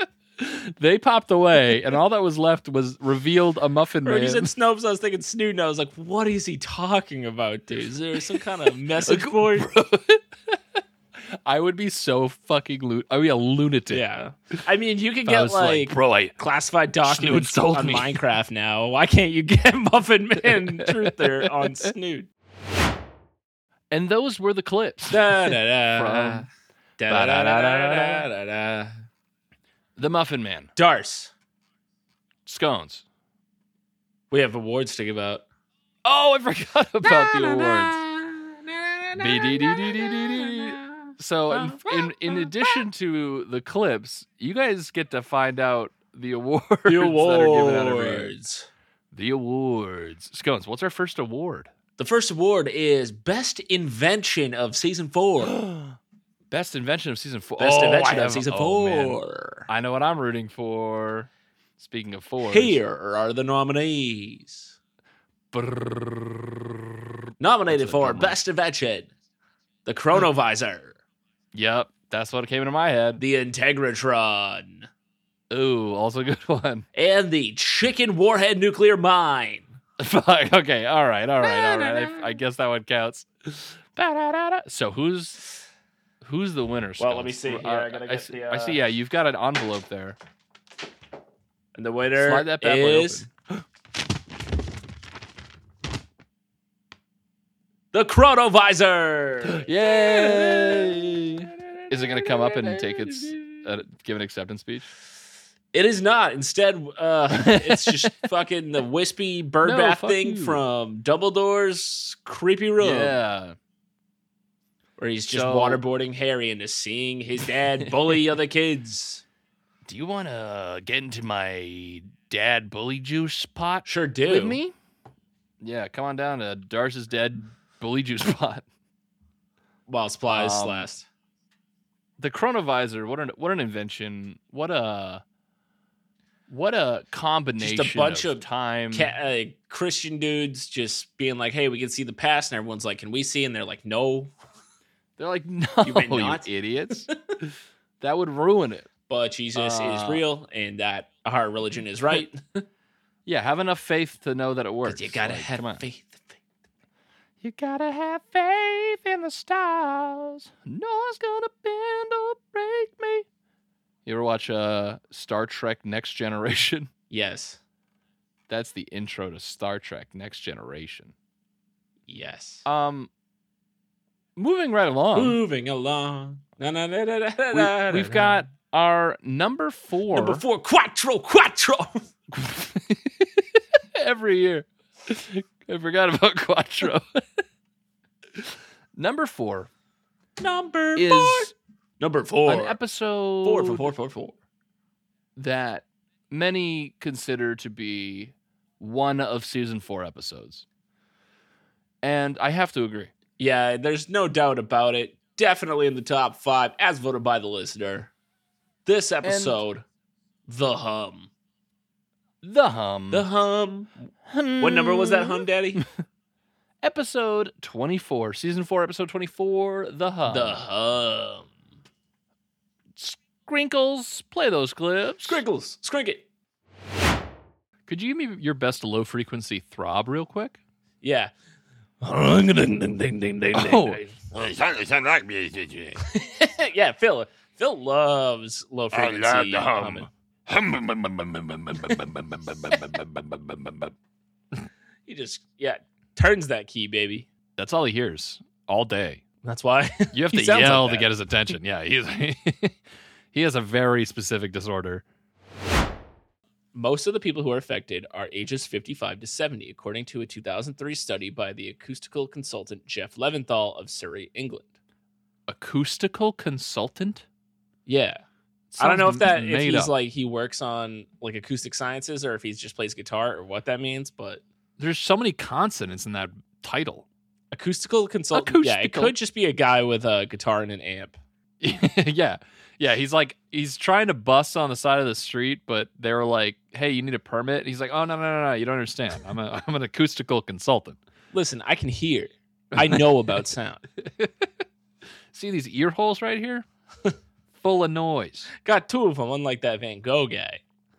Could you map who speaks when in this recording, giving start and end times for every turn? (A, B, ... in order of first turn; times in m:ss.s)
0:00.4-0:04.5 A
0:04.0-0:09.7 B
0:09.0-0:10.6 A
0:11.4-0:14.0 A
0:13.9-0:22.3 B
0:15.3-0:16.4 A
0:17.0-0:18.2 A
0:20.4-0:21.9 A
0:23.9-0:26.5 A
0:25.1-0:26.5 B
0:27.0-0:29.0 B
0:27.1-0:28.3 A
0:30.0-0:30.7 A
0:30.8-0:31.3 B
0:32.5-0:33.0 A
0:34.3-0:35.4 B
0:36.0-0:38.0 A
0:37.0-0:42.8 B
0:39.2-0:48.3 A
0:46.9-0:48.7 B
0:49.1-0:51.7 A
0:52.0-0:55.6 B
0:55.4-0:56.0 A
0:56.5-1:02.8 A
0:57.6-0:59.7 B
1:02.4-1:04.8 B
1:05.5-1:07.1 A
1:07.4-1:09.1 B
1:07.7-1:08.4 A
1:09.9-1:11.0 B
1:11.5-1:13.2 A
1:13.2-1:14.9 B
1:15.5-1:16.9 A
1:17.0-1:19.8 B
1:20.0-1:25.5 A
1:21.4-1:22.3 B
1:26.2-1:30.2 A
1:27.0-1:28.8 B
1:31.8-1:33.3 B
1:32.2-1:33.3 A
1:37.9-1:41.2 B
1:39.5-1:44.9 A
1:41.9-1:43.5 B
1:45.7-1:53.2 B
1:47.3-1:48.1 A
1:49.6-1:50.6 A
1:52.8-1:53.6 A
1:55.0-1:59.2 B
1:55.3-1:55.8 A
1:59.8-2:04.8 A
2:03.9-2:04.6 B
2:05.6-2:08.6 A
2:09.9-2:11.1 B
2:10.3-2:10.9 A
2:12.2-2:15.2 A
2:16.5-2:19.1 A
2:17.6-2:24.3 B
2:25.2-2:28.9 A
2:25.8-2:27.4 B
2:29.1-2:32.6 B
2:29.6-2:30.2 A
2:33.3-2:35.8 A
2:34.9-2:36.4 B
2:37.4-2:43.3 A
2:44.1-2:46.9 A
2:47.1-2:47.6 B
2:48.5-2:51.1 A
2:52.1-2:52.6 B
2:52.7-2:53.1 A
2:54.4-2:55.4 A
2:55.1-2:58.4 B
2:57.5-3:00.4 A
3:00.1-3:02.1 B
3:02.3-3:07.4 A
3:08.4-3:09.7 A
3:10.4-3:12.8 B
3:11.0-3:11.5 A
3:12.5-3:13.9 A
3:13.4-3:14.4 B
3:15.4-3:20.6 A
3:22.0-3:23.1 A
3:23.4-3:28.1 B
3:28.8-3:29.8 B
3:29.2-3:29.6 A
3:30.5-3:31.3 B
3:32.4-3:33.3 A
3:33.1-3:34.0 B
3:34.3-3:35.9 A
3:34.6-3:35.8 B
3:36.8-3:40.6 A
3:40.3-3:41.5 B
3:43.0-3:45.4 A
3:45.2-3:46.2 B
3:47.9-3:50.6 A
3:51.0-3:51.3 B
3:52.0-3:54.1 B
3:53.6-3:54.0 A
3:54.3-3:56.0 C
3:56.0-4:00.1 B
3:58.9-4:03.9 C
4:05.1-4:07.3 B
4:07.6-4:09.2 A
4:09.4-4:11.1 B
4:10.1-4:12.8 A
4:13.3-4:15.0 A
4:16.7-4:24.7 B
4:25.5-4:27.3 A
4:27.9-4:28.2 B
4:28.7-4:29.9 A
4:28.8-4:34.4 B
4:34.8-4:37.1 A
4:37.5-4:41.2 B
4:38.3-4:39.2 A
4:41.6-4:51.0 A
4:51.3-4:53.8 B
4:52.8-4:53.4 A
4:54.0-4:54.5 A
4:55.3-4:56.7 A
4:57.6-4:58.5 A
4:58.6-5:00.6 B